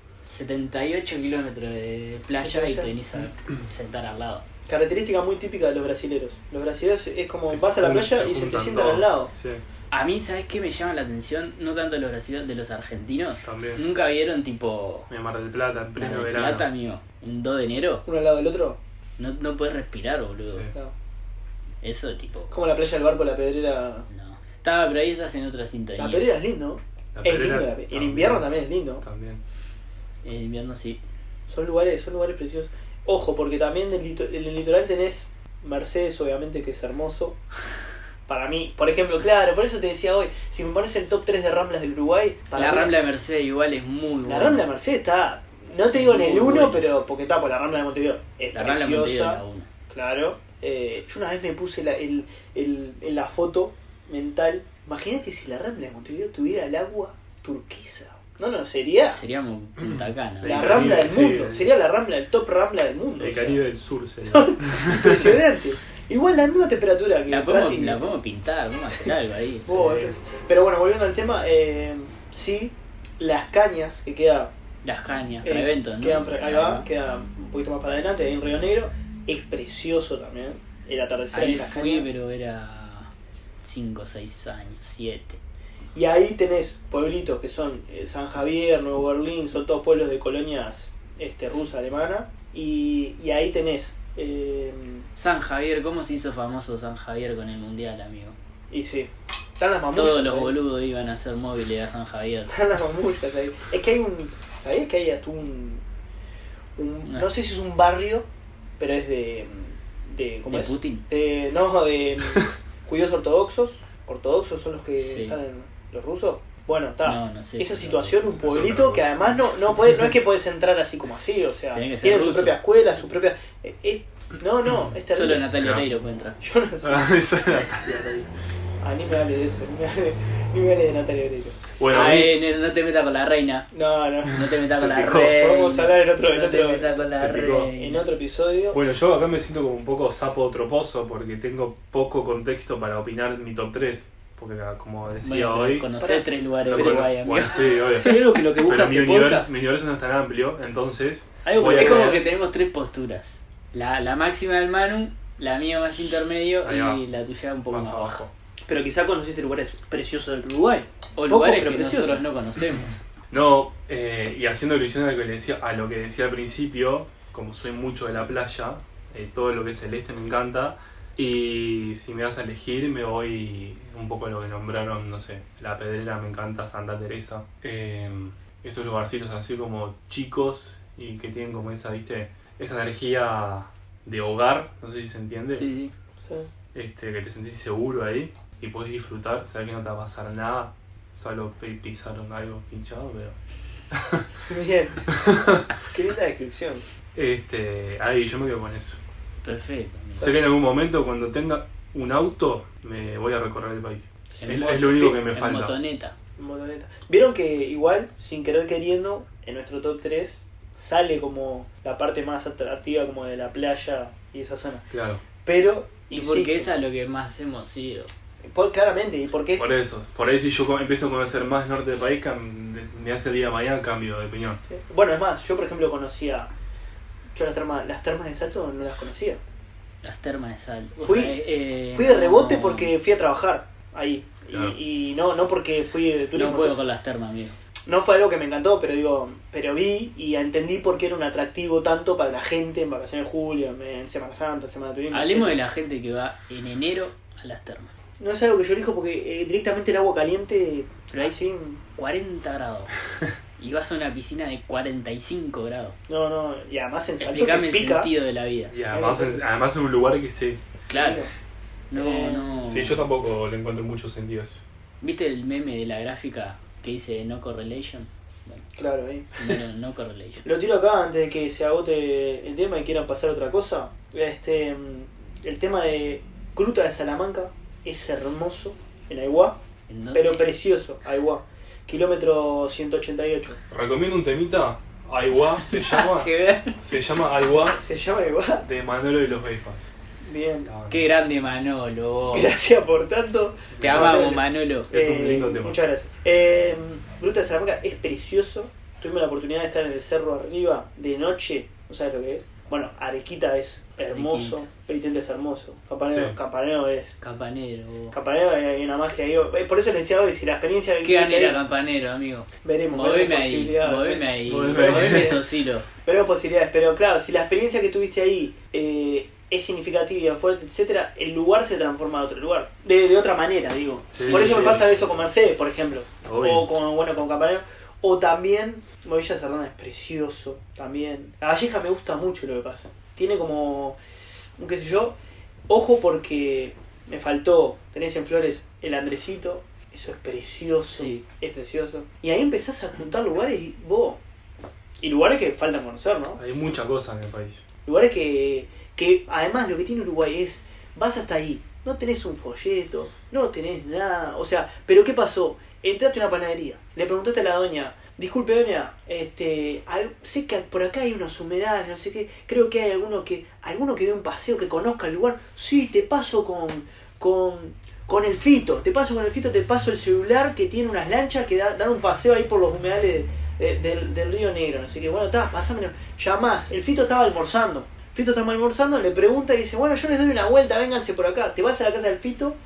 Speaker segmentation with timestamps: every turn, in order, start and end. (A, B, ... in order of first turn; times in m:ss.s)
0:00.2-0:04.4 A
0:02.4-0:02.9 B
0:04.6-0:09.3 B
0:07.5-0:09.6 C
0:09.9-0:15.1 A
0:13.4-0:13.8 C
0:15.1-0:16.7 C
0:16.0-0:18.0 A
0:18.0-0:18.8 B
0:19.2-0:20.7 A
0:21.8-0:22.5 A
0:22.5-0:24.1 B
0:24.1-0:26.3 A
0:26.0-0:29.0 B
0:27.1-0:29.4 C
0:30.2-0:31.0 A
0:31.5-0:37.4 B
0:38.3-0:42.9 B
0:42.5-0:44.6 A
0:44.2-0:59.2 B
0:45.9-0:46.8 A
0:48.5-0:49.7 A
0:59.1-1:01.0 A
0:59.8-1:01.7 C
1:00.4-1:03.6 B
1:03.2-1:05.4 C
1:04.3-1:08.0 B
1:07.3-1:09.8 A
1:09.6-1:14.5 B
1:09.7-1:10.1 C
1:14.8-1:16.9 A
1:15.4-1:22.1 B
1:21.3-1:23.1 A
1:23.6-1:25.4 A
1:25.9-1:35.1 B
1:35.2-1:38.4 A
1:38.7-1:40.6 B
1:39.9-1:42.5 A
1:42.5-1:45.8 B
1:46.8-1:48.2 B
1:48.8-2:05.5 B
1:50.4-1:51.0 A
1:55.0-1:55.4 A
1:57.0-1:58.2 A
1:58.4-1:59.9 C
2:01.7-2:02.6 A
2:05.1-2:06.4 A
2:05.6-2:05.9 C
2:06.4-2:07.1 B
2:06.8-2:08.3 C
2:08.8-2:11.6 B
2:11.8-2:12.4 C
2:11.9-2:13.7 A
2:13.7-2:14.4 B
2:14.3-2:18.1 A
2:14.6-2:15.5 C
2:15.3-2:16.9 B
2:17.1-2:17.7 C
2:17.7-2:18.8 B
2:18.7-2:25.9 C
2:25.2-2:27.7 A
2:26.0-2:29.5 B
2:26.6-2:32.2 C
2:31.4-2:32.2 B
2:31.7-2:38.2 A
2:36.6-2:37.0 C
2:37.7-2:38.3 C
2:38.7-2:42.2 B
2:41.2-2:42.9 A
2:43.3-3:05.7 C
3:05.5-3:05.9 A
3:06.7-3:13.4 C
3:13.9-3:14.3 C
3:14.5-3:15.1 B
3:15.1-3:15.7 C
3:15.9-3:16.8 B
3:17.1-3:19.0 C
3:19.4-3:20.3 A
3:20.2-3:25.8 C
3:24.4-3:26.1 A
3:26.4-3:34.8 B
3:34.9-3:35.2 C
3:35.4-3:36.7 B
3:36.1-3:38.1 A
3:38.4-3:39.6 B
3:39.6-3:44.6 C
3:44.7-3:46.5 B
3:47.3-3:49.4 B
3:50.0-3:52.9 A
3:51.0-3:51.4 B
3:51.9-3:56.8 B
3:56.3-3:57.6 A
3:57.8-4:05.6 B
4:05.1-4:07.9 A
4:08.2-4:11.8 B
4:11.1-4:11.4 A
4:11.9-4:12.9 A
4:13.6-4:16.0 A
4:16.1-4:18.1 B
4:17.2-4:18.7 A
4:18.7-4:20.6 C
4:18.9-4:19.4 B
4:20.9-4:21.2 A
4:20.9-4:21.3 B
4:21.9-4:23.0 A
4:21.9-4:22.6 B
4:22.6-4:24.6 C
4:25.0-4:28.7 A
4:28.8-4:29.6 B
4:29.4-4:30.4 A
4:30.4-4:39.6 B
4:39.9-4:40.5 A
4:40.1-4:43.6 B
4:43.7-4:47.8 C
4:45.6-4:46.8 A
4:47.6-4:48.6 B
4:48.6-4:49.9 C
4:50.2-4:50.7 B
4:50.6-4:51.1 C
4:50.9-4:52.5 A
4:52.3-5:07.2 B
4:53.7-4:54.4 C
4:53.8-4:54.9 A
4:54.9-4:55.8 C
5:04.1-5:04.6 A
5:06.1-5:06.4 C
5:07.2-5:08.2 A
5:08.1-5:11.6 B
5:11.0-5:15.9 A
5:12.6-5:15.4 B
5:14.4-5:15.4 C
5:16.0-5:34.0 B
5:24.1-5:25.3 C
5:24.2-5:24.8 A
5:26.2-5:26.7 C
5:34.6-5:35.2 B
5:35.7-5:44.2 B
5:40.9-5:41.2 A
5:45.0-5:46.4 B
5:46.4-5:47.6 C
5:47.8-6:22.6 B